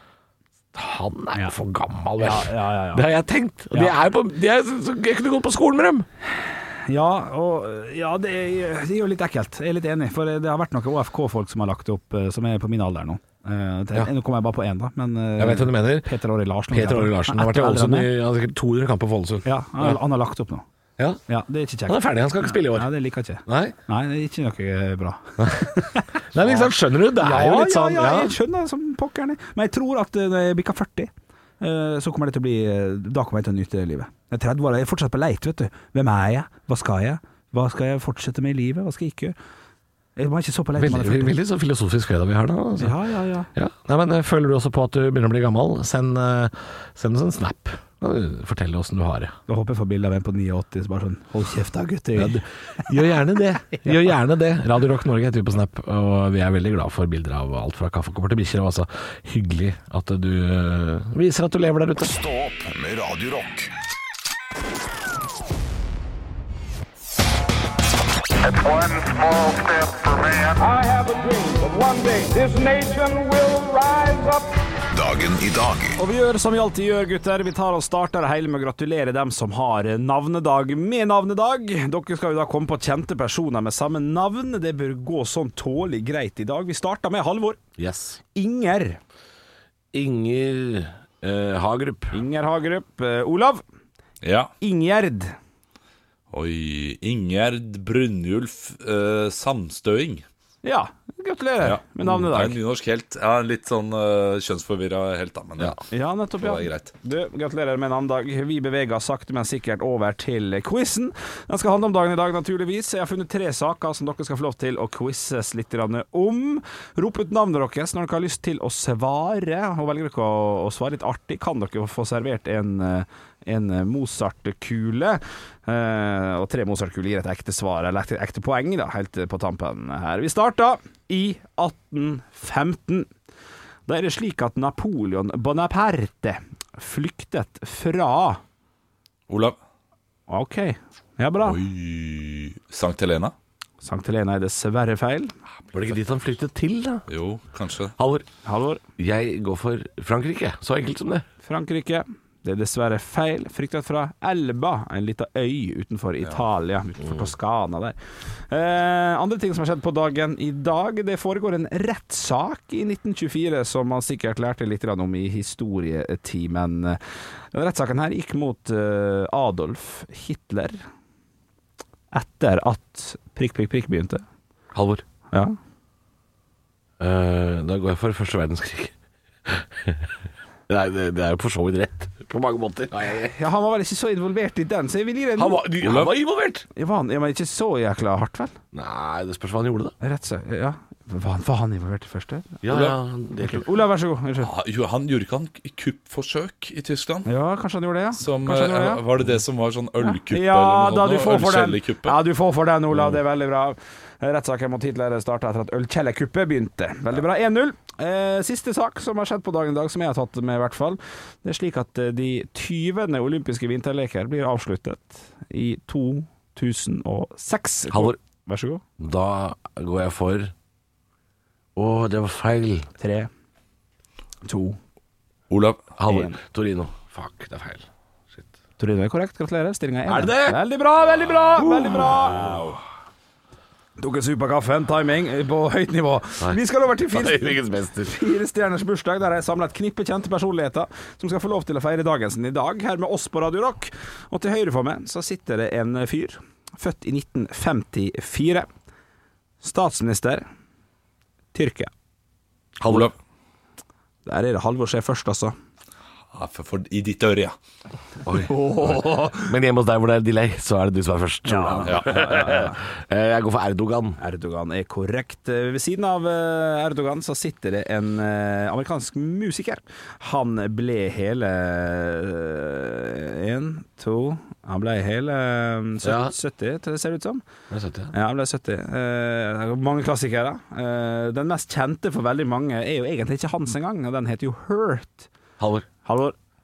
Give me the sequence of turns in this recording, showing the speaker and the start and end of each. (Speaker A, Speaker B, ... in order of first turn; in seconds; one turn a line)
Speaker A: 0.7-6.1
Speaker B: 2.2-3.0
Speaker B: 6.5-18.1
Speaker A: 15.4-16.1
Speaker A: 16.7-20.0
Speaker B: 19.4-20.6
Speaker B: 21.3-39.3
Speaker A: 21.9-22.9
Speaker A: 23.4-23.8
Speaker A: 25.4-25.7
Speaker A: 26.3-28.3
Speaker B: 40.2-41.4
Speaker A: 40.8-43.0
Speaker B: 42.8-43.5
Speaker A: 43.5-49.3
Speaker B: 49.5-52.4
Speaker A: 52.1-62.1
Speaker C: 62.1-63.7
Speaker D: 68.4-74.5
Speaker C: 74.9-76.0
Speaker B: 76.0-87.6
Speaker A: 87.8-88.2
Speaker B: 88.3-89.0
Speaker A: 89.9-92.2
Speaker B: 92.1-93.6
Speaker E: 94.2-94.5
Speaker B: 94.6-95.4
Speaker E: 96.3-100.2
Speaker B: 100.6-102.6
Speaker E: 101.6-105.8
Speaker B: 105.9-133.1
Speaker E: 106.4-106.9
Speaker B: 133.9-138.4
Speaker E: 139.3-139.6
Speaker B: 140.3-141.6
Speaker E: 141.4-143.3
Speaker B: 143.8-145.3
Speaker A: 145.7-147.1
Speaker E: 147.1-147.9
Speaker A: 148.0-148.2
Speaker B: 148.4-148.8
Speaker A: 149.0-151.2
Speaker B: 151.4-167.0
Speaker B: 167.5-170.8
Speaker B: 172.1-174.2
Speaker A: 174.7-175.0
Speaker A: 177.0-178.9
Speaker A: 179.4-180.1
Speaker A: 180.7-183.3
Speaker B: 183.2-185.6
Speaker A: 185.4-186.7
Speaker E: 185.8-186.1
Speaker B: 186.8-188.6
Speaker A: 188.7-189.9
Speaker B: 190.0-192.6
Speaker A: 192.6-193.7
Speaker B: 193.4-194.5
Speaker E: 194.4-197.3
Speaker B: 197.3-199.0
Speaker E: 198.2-202.2
Speaker B: 200.1-218.8
Speaker A: 217.9-218.2
Speaker A: 219.0-220.5
Speaker A: 221.8-222.9
Speaker B: 223.0-223.3
Speaker B: 224.4-224.8
Speaker E: 225.5-225.9
Speaker A: 226.0-228.5
Speaker B: 226.1-226.4
Speaker B: 228.8-232.6
Speaker A: 230.1-230.6
Speaker A: 231.6-232.8
Speaker B: 234.0-248.7
Speaker A: 237.1-238.2
Speaker B: 249.6-250.5
Speaker B: 251.5-251.9
Speaker A: 252.8-253.1
Speaker E: 252.8-253.1
Speaker B: 254.3-255.6
Speaker E: 256.3-257.6
Speaker A: 258.2-264.2
Speaker B: 258.3-259.5
Speaker B: 261.4-262.8
Speaker B: 264.2-277.4
Speaker A: 276.0-276.3
Speaker A: 277.7-278.1
Speaker B: 278.1-285.3
Speaker A: 285.6-285.9
Speaker B: 286.1-286.3